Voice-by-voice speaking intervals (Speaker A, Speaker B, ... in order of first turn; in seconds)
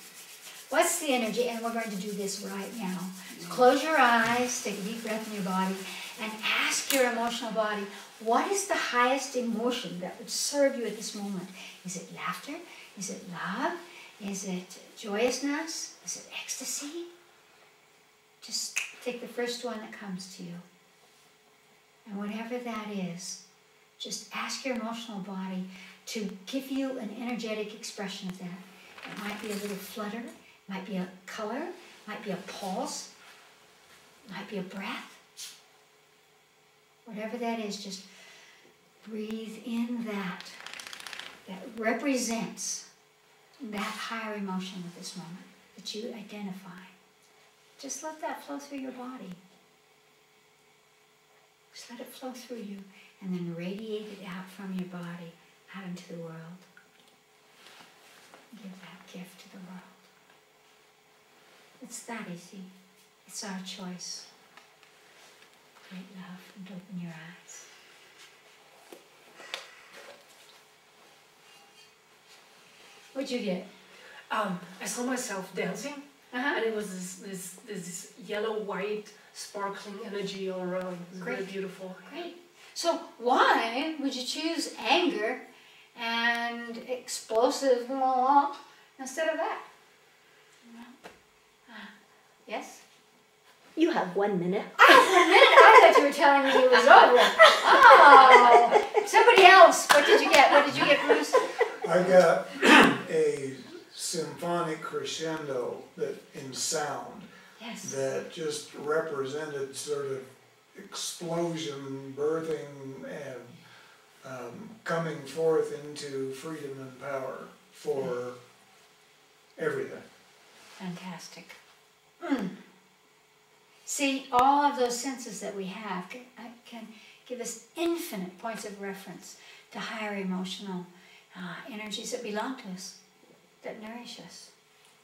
Speaker A: 0.7-17.1, 18.4-20.6, 22.1-23.4, 24.0-33.1, 34.3-35.2, 37.0-38.1, 39.0-40.6, 41.5-42.9, 43.6-46.9, 47.8-49.4, 51.7-56.7, 58.5-60.1, 61.8-62.7, 63.3-64.3, 65.9-67.7, 73.1-73.7, 76.3-76.6, 81.2-81.5, 82.0-85.4, 86.0-89.7, 90.7-91.0, 91.7-91.9, 92.5-92.8, 94.8-101.5, 107.6-108.0, 120.8-121.6, 122.2-122.5, 123.9-133.0, 133.6-134.5
Speaker B: 74.3-82.1
Speaker C: 93.8-95.9, 96.8-98.8
Speaker D: 101.8-113.6, 114.2-118.4, 119.6-120.0